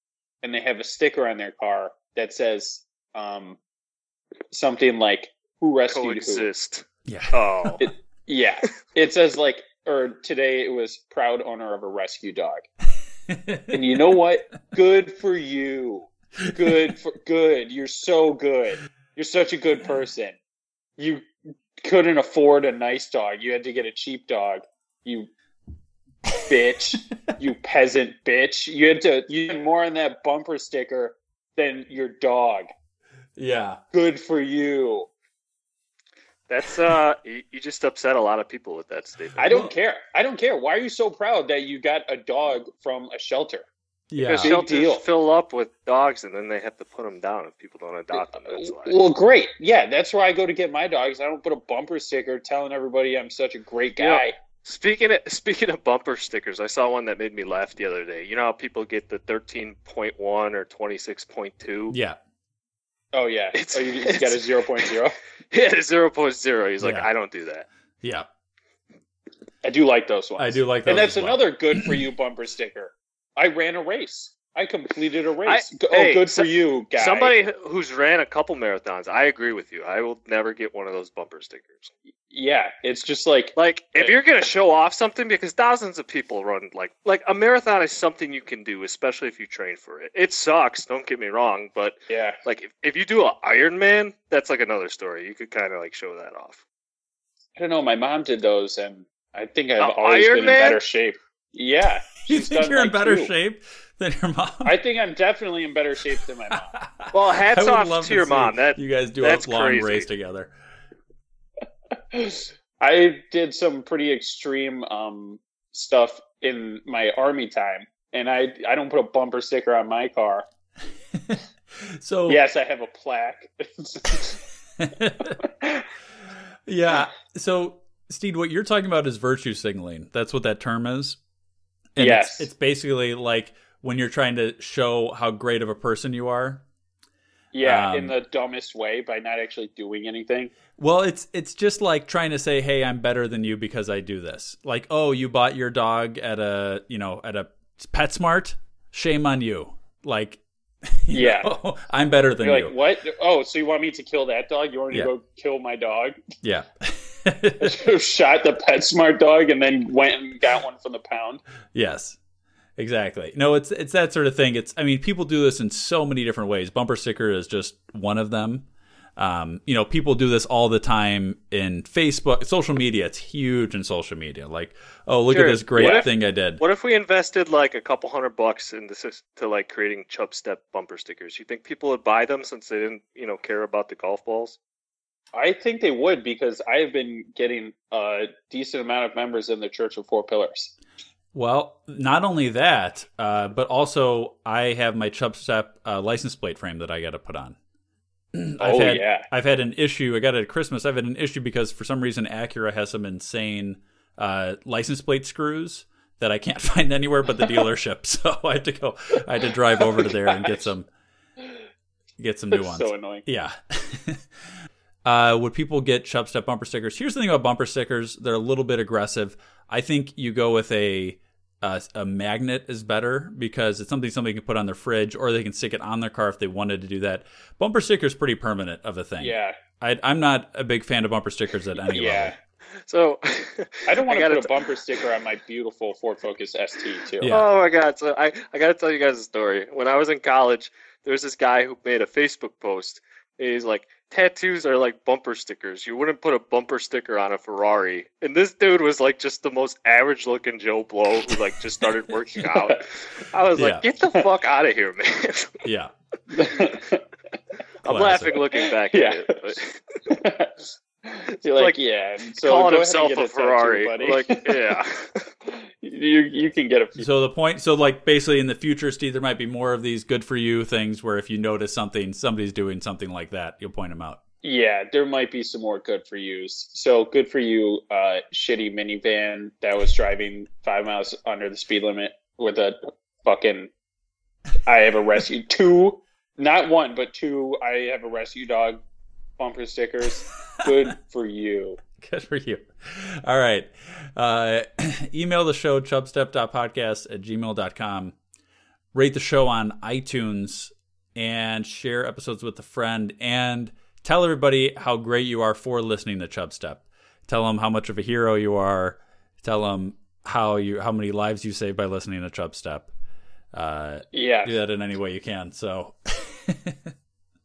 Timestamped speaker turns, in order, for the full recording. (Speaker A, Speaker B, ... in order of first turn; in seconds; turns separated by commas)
Speaker A: 0.4-3.6, Speaker A: 4.5-6.5, Speaker B: 5.9-7.8, Speaker C: 7.1-7.8, Speaker A: 7.8-12.7, Speaker C: 13.3-14.0, Speaker A: 13.7-20.4, Speaker C: 16.5-16.9, Speaker A: 21.0-21.2, Speaker A: 21.8-25.3, Speaker A: 26.4-32.7, Speaker C: 33.4-33.8, Speaker A: 33.9-35.1, Speaker B: 36.5-39.5, Speaker A: 39.4-43.7, Speaker C: 44.1-44.5, Speaker B: 44.2-49.0, Speaker A: 44.4-45.0, Speaker A: 48.5-54.4, Speaker B: 54.0-62.0, Speaker C: 61.9-62.2, Speaker A: 63.1-65.2, Speaker B: 63.5-65.0, Speaker B: 65.5-67.7, Speaker C: 66.8-67.1, Speaker C: 68.0-68.3, Speaker A: 69.6-77.4, Speaker C: 70.4-71.9, Speaker B: 75.5-81.9, Speaker A: 82.3-84.1, Speaker B: 83.6-96.6, Speaker A: 92.1-92.4, Speaker A: 97.6-103.3, Speaker B: 99.8-100.8, Speaker C: 102.2-104.8, Speaker A: 104.6-106.7, Speaker C: 106.5-110.5, Speaker B: 107.1-110.1, Speaker A: 112.1-120.5, Speaker C: 121.1-122.4, Speaker A: 122.3-124.4, Speaker C: 124.8-125.4, Speaker A: 125.4-125.9, Speaker C: 126.7-131.2, Speaker C: 132.0-136.6, Speaker A: 132.0-132.5, Speaker A: 137.5-140.5, Speaker C: 137.6-138.2, Speaker C: 140.8-152.8, Speaker A: 151.1-151.5, Speaker A: 152.4-156.2, Speaker C: 156.4-157.9, Speaker A: 157.6-161.4, Speaker C: 161.7-162.2, Speaker C: 162.8-176.6, Speaker B: 175.3-184.6, Speaker A: 175.8-176.1, Speaker A: 185.3-190.7, Speaker C: 191.3-197.6, Speaker C: 198.3-210.9, Speaker A: 198.6-199.3, Speaker C: 212.2-214.3, Speaker A: 212.5-213.2, Speaker C: 215.1-232.3, Speaker A: 229.2-229.6, Speaker A: 231.9-232.4, Speaker B: 232.8-234.7, Speaker A: 233.9-237.4, Speaker C: 237.2-237.5, Speaker B: 237.3-255.6, Speaker A: 252.5-252.8, Speaker C: 253.6-253.8, Speaker C: 255.6-255.9, Speaker A: 256.3-257.0, Speaker B: 257.8-259.8, Speaker C: 257.9-258.4, Speaker A: 258.8-259.4, Speaker A: 260.1-264.7, Speaker B: 261.5-261.8, Speaker B: 262.4-265.3, Speaker A: 265.5-267.1, Speaker C: 267.0-274.2, Speaker A: 274.4-283.7, Speaker A: 284.7-288.8, Speaker A: 289.4-291.8, Speaker C: 292.0-298.2, Speaker C: 298.9-312.9, Speaker C: 313.5-316.9, Speaker A: 314.1-314.6